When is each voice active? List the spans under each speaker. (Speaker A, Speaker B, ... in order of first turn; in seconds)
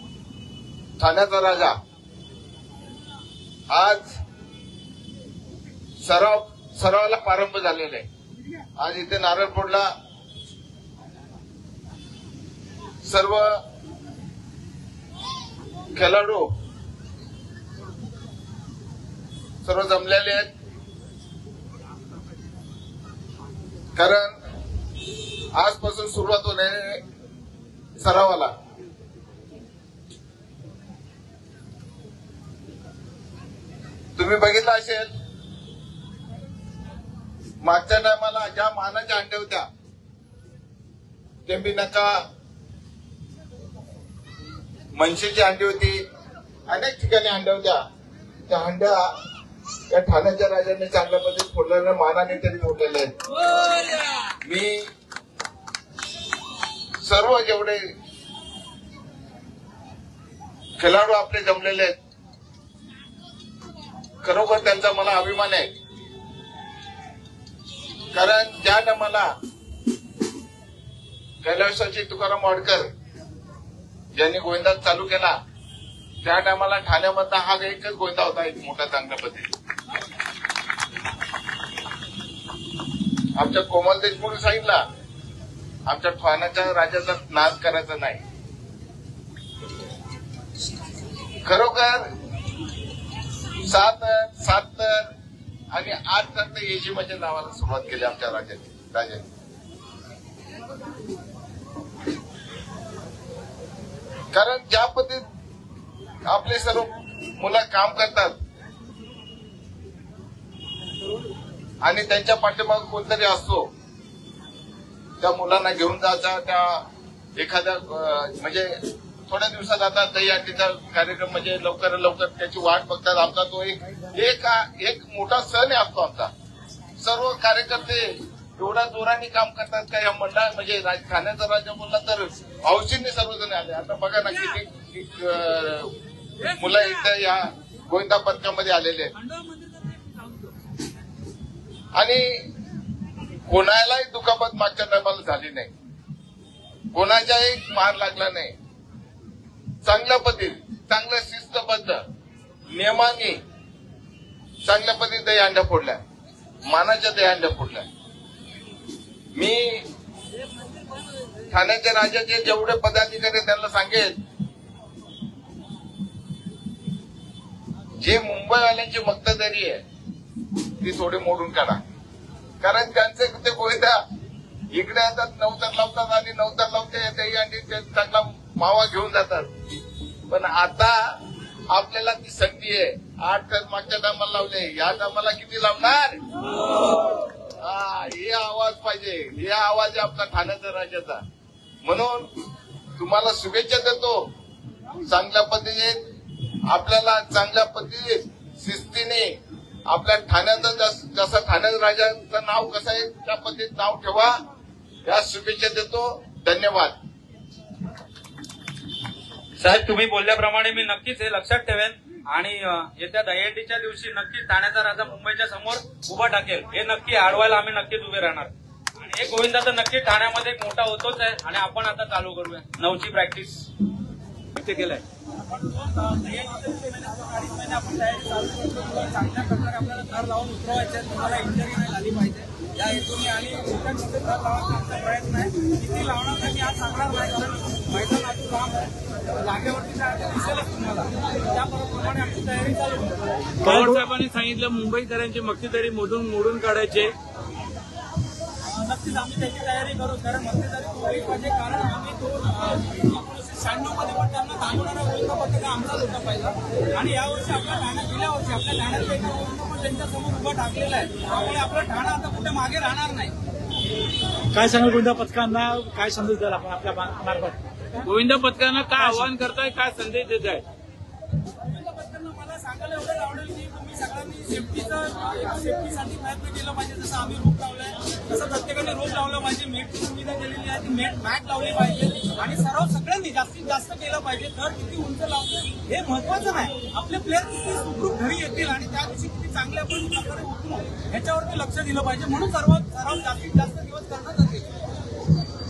Speaker A: 1.0-1.7, 3.7-4.2, 6.0-8.1, 8.8-9.9, 13.0-13.6, 15.9-16.5, 19.6-20.5, 24.0-24.4, 25.5-27.0, 28.0-28.5, 34.2-35.1, 37.6-39.7, 41.5-42.2, 44.9-46.0, 46.7-47.8, 48.5-49.2, 49.9-53.1, 54.4-54.9, 57.0-57.8, 60.8-62.0, 64.2-65.7, 68.1-69.3, 71.4-72.9, 74.2-75.3, 76.2-79.5, 83.3-84.8, 85.9-88.2, 91.4-92.1, 93.6-95.1, 95.7-99.2, 104.3-105.2, 106.3-108.3, 111.8-113.7, 115.2-118.8, 119.3-126.3, 127.0-139.1, 141.9-142.5, 143.5-145.7, 146.9-148.5, 149.8-152.0, 152.7-153.4, 154.6-156.0, 156.6-157.9, 159.3-159.8, 161.5-164.2, 168.0-169.8, 170.8-171.8, 172.6-174.0, 174.7-179.5, 180.3-186.2, 187.6-191.2, 191.8-192.3, 193.0-194.3, 195.0-196.0, 196.7-204.4, 205.0-206.9
Speaker B: 139.3-140.3, 225.4-243.7, 248.6-263.4, 264.7-265.2, 271.6-294.8
Speaker C: 209.6-223.7, 224.6-225.0
Speaker D: 243.6-247.1, 268.0-270.6
Speaker E: 264.6-267.6